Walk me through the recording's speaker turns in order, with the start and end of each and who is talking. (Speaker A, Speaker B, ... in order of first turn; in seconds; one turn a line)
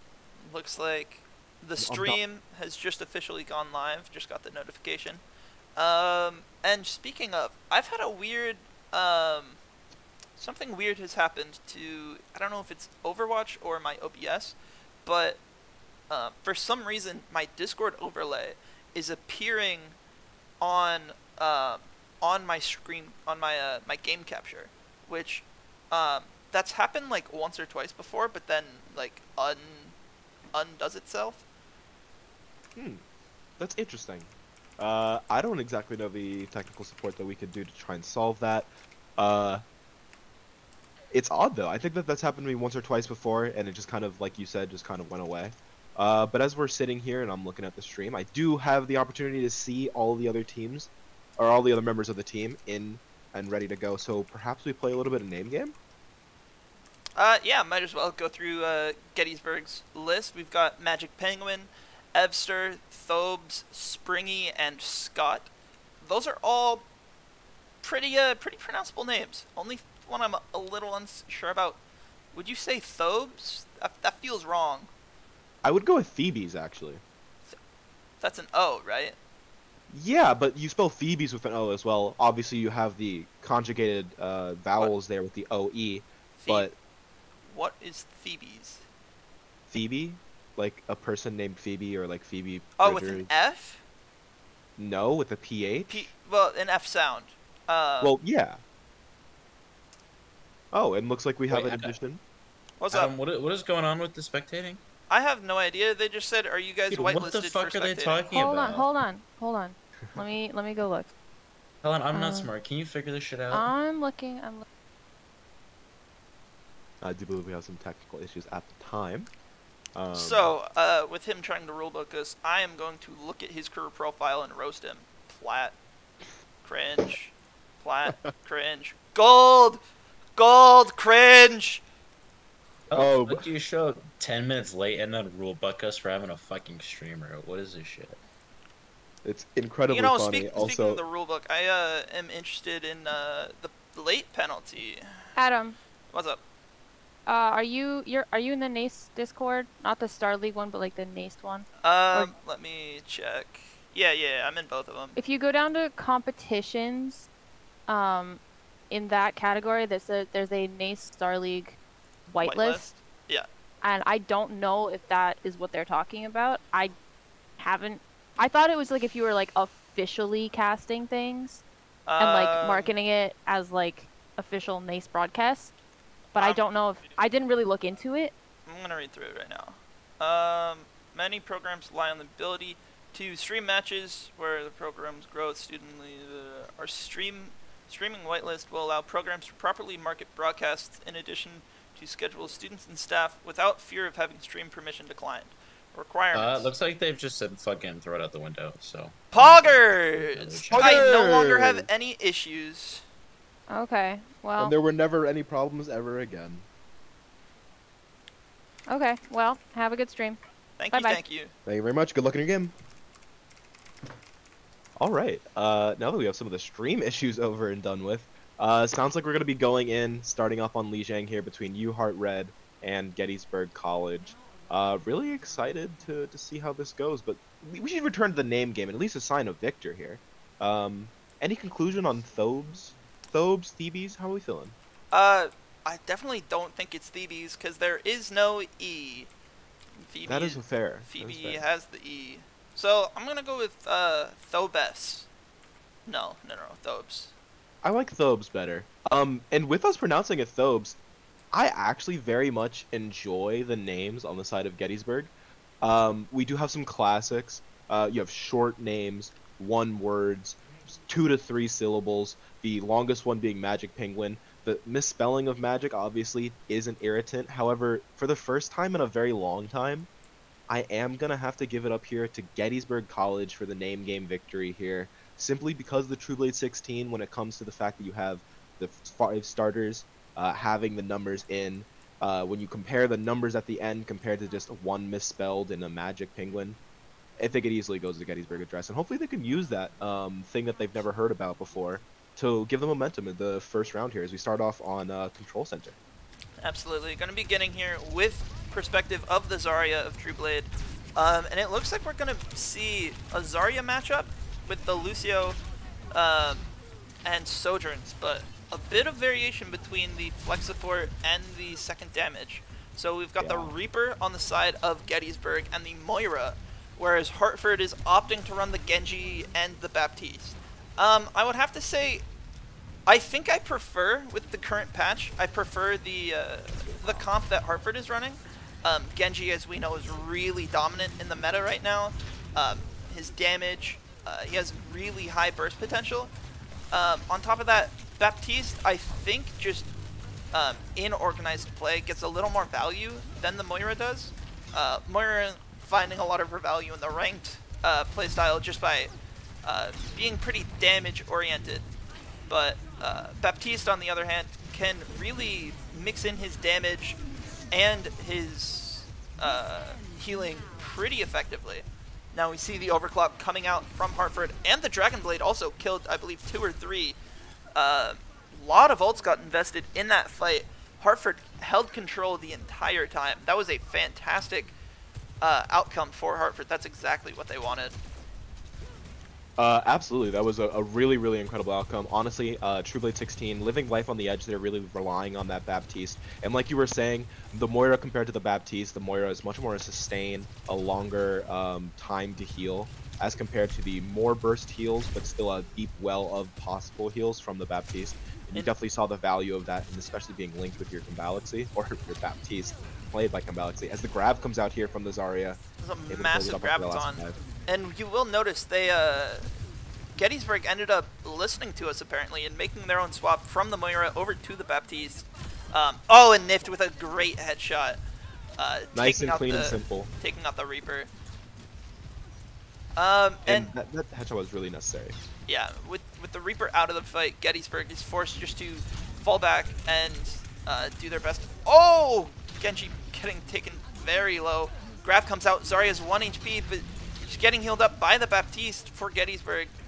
Speaker A: 0.4-5.2
Speaker B: 1.8-2.2
Speaker A: 5.8-9.6
Speaker A: 10.4-15.4
Speaker A: 16.1-20.0
Speaker A: 20.6-29.9
Speaker A: 30.5-31.4
Speaker B: 32.8-33.0
Speaker B: 33.6-39.6
Speaker B: 41.1-55.8
Speaker A: 57.2-65.5
Speaker A: 66.0-66.9
Speaker A: 67.8-71.8
Speaker A: 72.3-74.9
Speaker B: 75.6-77.0
Speaker A: 78.2-79.2
Speaker B: 79.9-86.8
Speaker A: 86.4-86.7
Speaker A: 87.5-88.8
Speaker B: 89.7-93.3
Speaker A: 92.8-93.8
Speaker B: 94.8-96.1
Speaker A: 95.9-98.2
Speaker B: 98.0-98.6
Speaker B: 100.7-102.2
Speaker C: 101.5-102.0
Speaker A: 102.8-103.1
Speaker C: 102.9-104.8
Speaker A: 105.1-108.2
Speaker C: 106.9-108.9
Speaker D: 108.3-111.1
Speaker C: 111.8-113.7
Speaker D: 112.1-112.5
Speaker D: 113.5-114.7
Speaker B: 117.0-119.3
Speaker B: 120.0-120.5
Speaker A: 120.1-125.8
Speaker A: 126.6-129.8
Speaker A: 130.4-131.8
Speaker C: 132.9-138.2
Speaker B: 132.9-133.5
Speaker B: 139.2-141.0
Speaker A: 139.9-145.1
Speaker D: 145.4-145.8
Speaker A: 146.1-146.4
Speaker D: 147.3-152.3
Speaker A: 151.8-155.2
Speaker D: 155.2-157.3
Speaker D: 157.9-161.8
Speaker D: 162.3-162.8
Speaker A: 162.4-163.5
Speaker D: 163.8-166.9
Speaker D: 167.6-171.6
Speaker A: 172.1-172.9
Speaker D: 172.2-175.8
Speaker D: 176.3-178.3
Speaker A: 176.4-176.6
Speaker A: 178.7-196.7
Speaker C: 196.3-201.1
Speaker A: 199.3-203.0
Speaker B: 200.7-201.9
Speaker D: 203.7-204.7
Speaker B: 204.6-206.7
Speaker D: 208.9-210.4
Speaker A: 210.8-211.5
Speaker D: 210.9-211.2
Speaker B: 211.7-212.7
Speaker B: 215.0-234.8
Speaker A: 235.1-239.3
Speaker A: 240.1-245.3
Speaker B: 240.3-241.6
Speaker A: 246.1-247.3
Speaker B: 247.8-251.0
Speaker B: 251.5-270.1
Speaker B: 270.7-286.8
Speaker B: 287.4-296.0
Speaker A: 296.6-305.6
Speaker A: 306.1-306.7
Speaker A: 307.2-322.2
Speaker B: 313.4-313.7
Speaker A: 323.1-336.3
Speaker A: 336.9-339.9
Speaker A: 340.5-349.1
Speaker A: 349.6-351.9
Speaker A: 352.5-357.2
Speaker A: 357.7-367.2
Speaker A: 367.8-374.8
Speaker A: 375.4-378.0
Speaker B: 379.6-407.4
Speaker A: 405.8-409.5
Speaker A: 410.2-418.0
Speaker A: 418.6-421.1
Speaker B: 418.9-420.1
Speaker A: 423.0-423.7
Speaker B: 423.5-425.2
Speaker A: 425.5-439.7